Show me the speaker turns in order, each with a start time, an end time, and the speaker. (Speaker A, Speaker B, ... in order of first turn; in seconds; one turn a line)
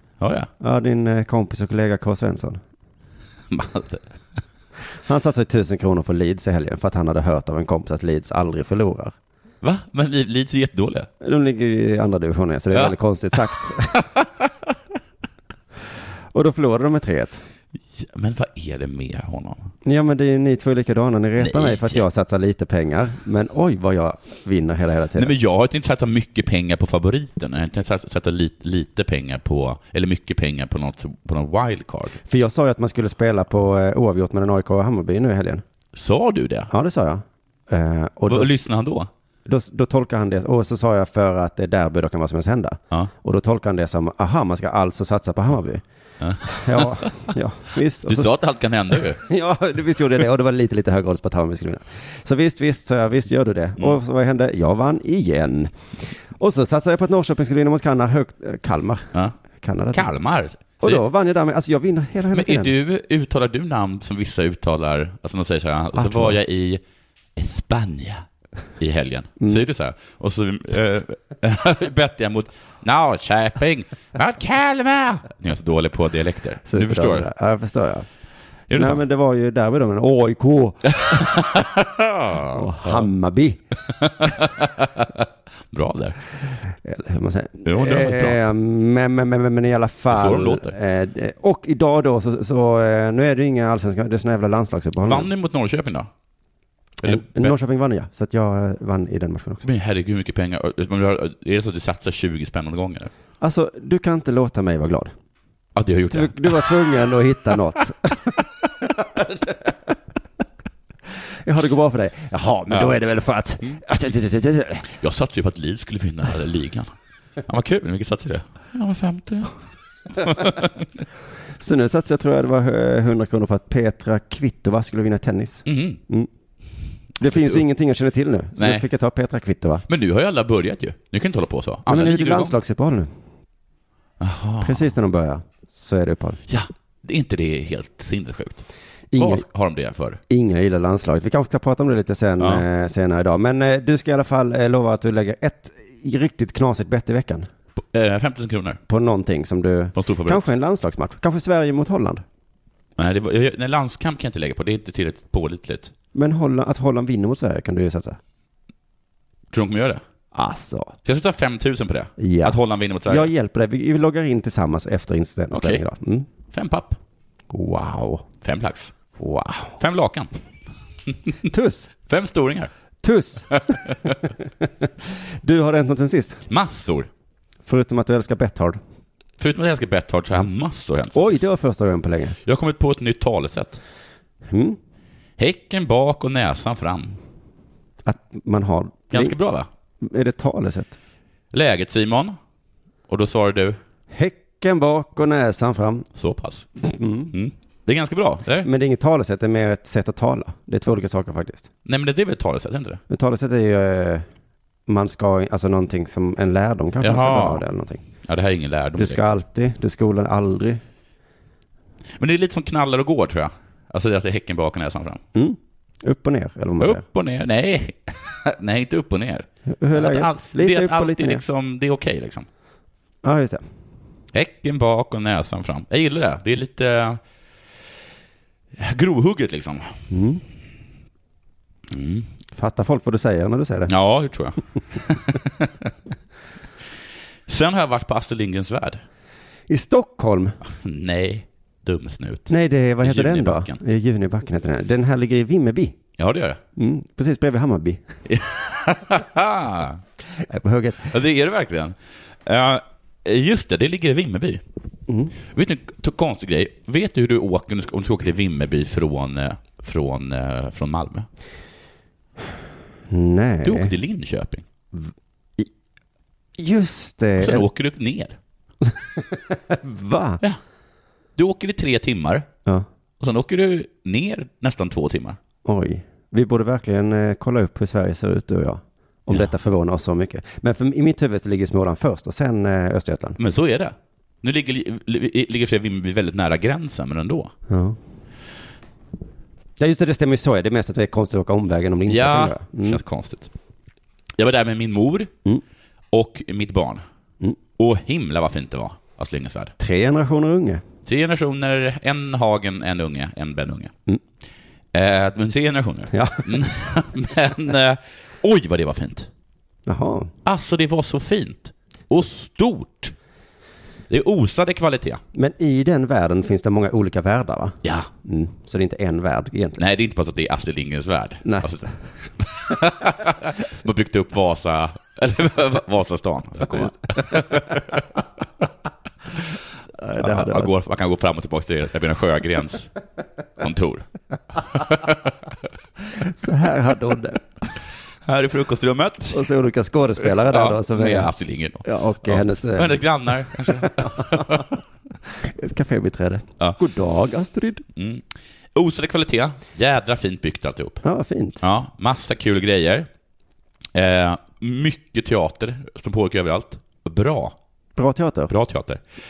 Speaker A: 0.2-0.5
Speaker B: 0.6-2.6
Speaker A: 3.5-4.0
Speaker B: 5.1-9.1
Speaker A: 9.6-11.1
Speaker B: 11.2-14.0
Speaker A: 12.7-14.0
Speaker B: 16.3-17.4
Speaker A: 17.9-19.7
Speaker B: 19.8-25.3
Speaker A: 21.4-22.0
Speaker A: 25.1-32.2
Speaker B: 32.3-35.6
Speaker A: 35.9-36.7
Speaker B: 36.7-38.5
Speaker A: 38.3-39.1
Speaker B: 39.4-45.8
Speaker A: 46.2-47.1
Speaker B: 46.5-48.3
Speaker A: 48.0-49.2
Speaker B: 49.1-55.7
Speaker B: 56.3-59.1
Speaker B: 59.6-60.1
Speaker A: 59.9-61.0
Speaker B: 60.8-62.7
Speaker A: 62.3-66.8
Speaker B: 66.0-66.3
Speaker A: 67.3-68.2
Speaker A: 68.8-77.2
Speaker B: 76.7-78.1
Speaker A: 78.7-79.0
Speaker B: 78.7-81.6
Speaker A: 81.0-83.0
Speaker B: 82.5-83.6
Speaker A: 84.0-86.2
Speaker B: 86.8-95.3
Speaker A: 87.6-88.4
Speaker A: 90.1-90.7
Speaker A: 95.0-96.1
Speaker A: 97.0-97.5
Speaker B: 97.0-99.6
Speaker A: 99.6-103.1
Speaker B: 103.4-105.1
Speaker A: 105.8-106.6
Speaker B: 106.1-109.5
Speaker B: 111.4-114.9
Speaker A: 115.0-116.9
Speaker A: 117.5-119.5
Speaker A: 120.1-120.9
Speaker B: 121.6-126.3
Speaker A: 125.7-126.0
Speaker B: 127.2-129.8
Speaker A: 127.2-127.6
Speaker A: 128.6-128.8
Speaker A: 129.9-132.5
Speaker B: 131.8-133.1
Speaker A: 134.2-134.9
Speaker B: 134.6-136.4
Speaker A: 136.5-140.2
Speaker B: 139.1-139.4
Speaker B: 140.3-147.5
Speaker A: 147.9-148.8
Speaker B: 148.9-152.2
Speaker A: 150.0-150.4
Speaker A: 153.0-155.9
Speaker B: 156.1-158.2
Speaker A: 159.5-160.0
Speaker B: 160.3-160.9
Speaker A: 161.0-163.3
Speaker B: 162.2-166.3
Speaker A: 165.5-165.8
Speaker A: 166.5-167.0
Speaker B: 167.5-168.3
Speaker A: 168.4-168.9
Speaker B: 169.2-169.7
Speaker A: 169.8-170.3
Speaker B: 171.4-171.9
Speaker A: 172.1-172.7
Speaker B: 173.0-174.9
Speaker B: 175.4-176.4
Speaker A: 176.5-177.1
Speaker B: 177.6-178.8
Speaker A: 179.4-181.5
Speaker B: 181.1-182.4
Speaker A: 182.4-183.8
Speaker B: 184.5-184.8
Speaker A: 185.4-187.2
Speaker B: 188.0-189.3
Speaker A: 189.1-189.7
Speaker B: 190.0-191.0
Speaker A: 191.5-192.4
Speaker A: 193.1-193.8
Speaker B: 194.1-196.1
Speaker A: 196.2-196.7
Speaker B: 196.8-197.3
Speaker A: 197.3-198.7
Speaker B: 198.6-201.7
Speaker A: 201.8-203.0
Speaker B: 203.1-204.2
Speaker B: 204.9-208.0
Speaker A: 207.0-207.6
Speaker A: 208.3-209.4
Speaker B: 209.0-210.8
Speaker A: 212.2-215.2
Speaker B: 215.3-217.0
Speaker A: 216.8-222.5
Speaker B: 219.7-221.4
Speaker B: 223.2-223.6
Speaker A: 224.3-227.2
Speaker A: 228.8-229.9
Speaker B: 230.1-230.4
Speaker A: 231.9-232.2
Speaker B: 232.5-233.9
Speaker A: 233.9-235.9
Speaker A: 237.5-239.0
Speaker B: 239.7-240.6
Speaker A: 240.8-243.8
Speaker B: 242.5-245.9
Speaker A: 246.2-246.6
Speaker B: 246.8-248.1
Speaker A: 248.3-250.0
Speaker B: 250.3-251.2
Speaker A: 251.1-254.6
Speaker B: 255.1-255.3
Speaker A: 255.5-261.3
Speaker B: 263.1-263.9
Speaker A: 263.6-264.6
Speaker B: 264.9-265.7
Speaker B: 266.6-267.7
Speaker A: 267.4-268.4
Speaker B: 268.8-270.4
Speaker A: 271.4-272.5
Speaker A: 273.2-275.4
Speaker B: 275.6-283.4
Speaker A: 283.4-287.5
Speaker B: 287.7-288.0
Speaker B: 289.8-293.0
Speaker A: 292.1-293.5
Speaker A: 294.4-295.3
Speaker A: 296.1-297.0
Speaker A: 297.8-299.7
Speaker B: 299.8-300.8
Speaker A: 301.1-303.9
Speaker A: 304.9-309.3
Speaker B: 306.1-306.6
Speaker B: 309.9-310.3
Speaker A: 310.4-313.1
Speaker A: 314.1-315.2
Speaker B: 315.3-319.8
Speaker A: 317.8-318.1
Speaker A: 319.8-328.0
Speaker B: 330.0-330.7
Speaker A: 330.2-332.9
Speaker A: 333.6-334.1
Speaker A: 334.7-335.2
Speaker B: 336.1-337.4
Speaker A: 338.2-339.4
Speaker B: 339.3-341.3
Speaker A: 340.4-344.7
Speaker B: 341.8-344.6
Speaker B: 345.3-347.8
Speaker A: 347.9-348.2
Speaker A: 348.7-351.0
Speaker B: 351.0-351.6
Speaker A: 351.6-353.1
Speaker A: 353.9-357.5
Speaker B: 357.9-358.5
Speaker A: 358.5-359.0